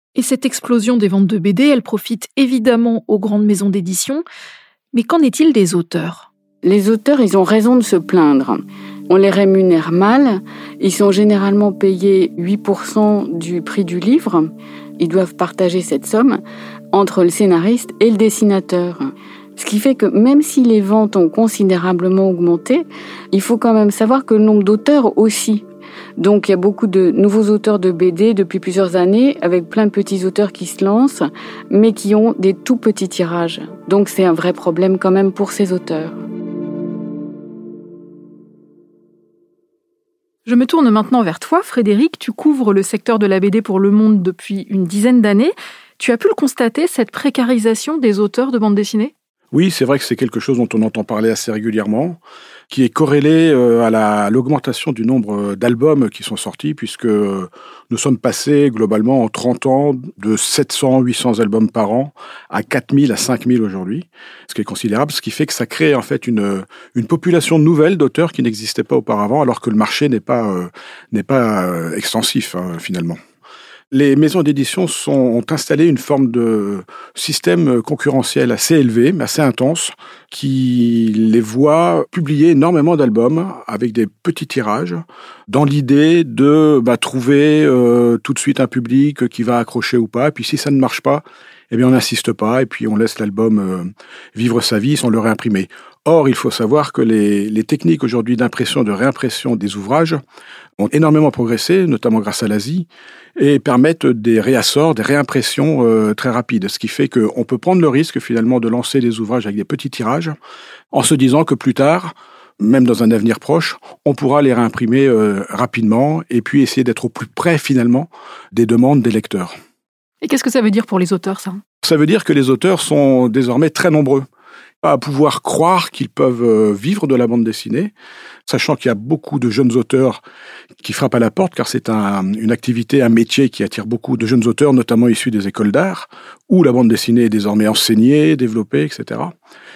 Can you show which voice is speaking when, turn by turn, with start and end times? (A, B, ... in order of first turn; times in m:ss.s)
0:00.2-0:04.2 A
0:04.9-0:06.3 A
0:06.6-0:16.4 B
0:16.9-0:25.6 B
0:26.2-0:36.2 B
0:40.5-0:49.1 A
0:49.5-1:13.2 C
1:13.9-1:40.2 C
1:40.8-1:50.4 C
1:50.9-1:59.5 C
2:00.2-2:01.6 A
2:01.8-2:04.3 C
2:04.8-2:07.9 C
2:08.5-2:10.2 C
2:10.8-2:19.3 C